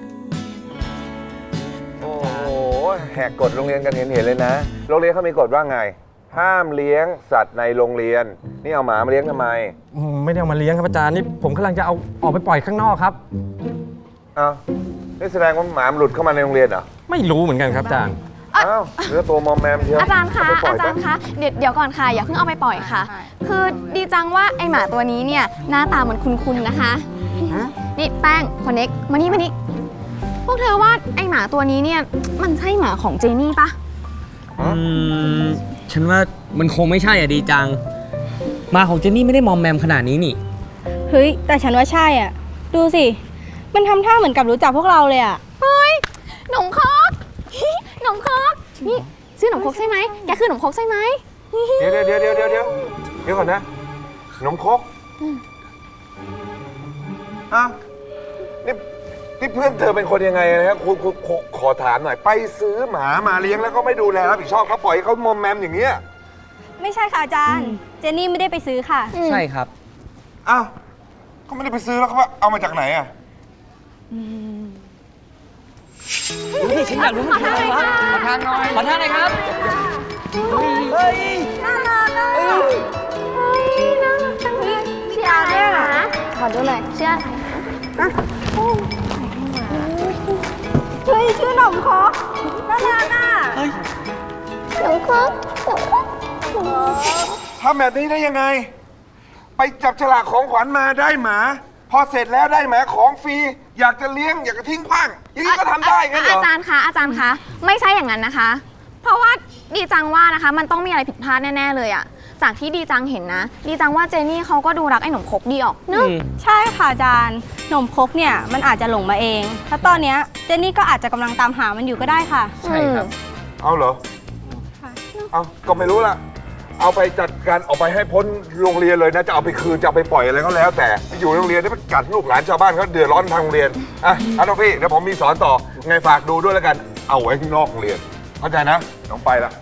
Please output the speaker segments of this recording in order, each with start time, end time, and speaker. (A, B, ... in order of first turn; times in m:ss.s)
0:02.0-0:09.7 A
0:09.9-0:13.2 B
0:14.4-0:14.6 A
0:15.2-0:16.8 A
0:17.1-0:18.2 B
0:18.5-0:19.1 C
0:18.6-0:21.0 A
0:19.9-0:29.5 C
0:22.7-0:23.3 D
0:30.4-0:33.8 C
0:34.6-0:37.8 E
0:38.7-0:40.4 E
0:41.1-0:43.2 D
0:43.7-0:45.4 D
0:45.6-0:52.5 C
0:51.8-0:53.6 A
0:54.4-0:54.8 A
0:57.5-0:57.8 A
0:59.4-1:06.0 A
1:06.8-1:09.1 D
1:09.1-1:09.4 C
1:09.2-1:09.7 E
1:10.4-1:10.7 A
1:11.5-1:13.1 A
1:16.6-1:19.4 B
1:16.6-1:19.1 C
1:19.4-1:19.8 D
1:20.4-1:21.0 D
1:20.5-1:21.5 B
1:21.5-1:22.8 D
1:23.4-1:26.1 C
1:24.5-1:26.9 D
1:26.9-1:27.6 C
1:29.6-1:30.2 D
1:31.0-1:33.6 D
1:34.8-1:37.2 C
1:37.6-1:38.7 A
1:39.6-1:46.5 A
1:45.4-1:56.1 C
1:55.9-1:56.2 E
1:56.4-2:02.5 D
2:02.6-2:03.1 C
2:02.6-2:03.0 E
2:03.6-2:04.0 A
2:05.3-2:06.2 A
2:06.8-2:19.5 A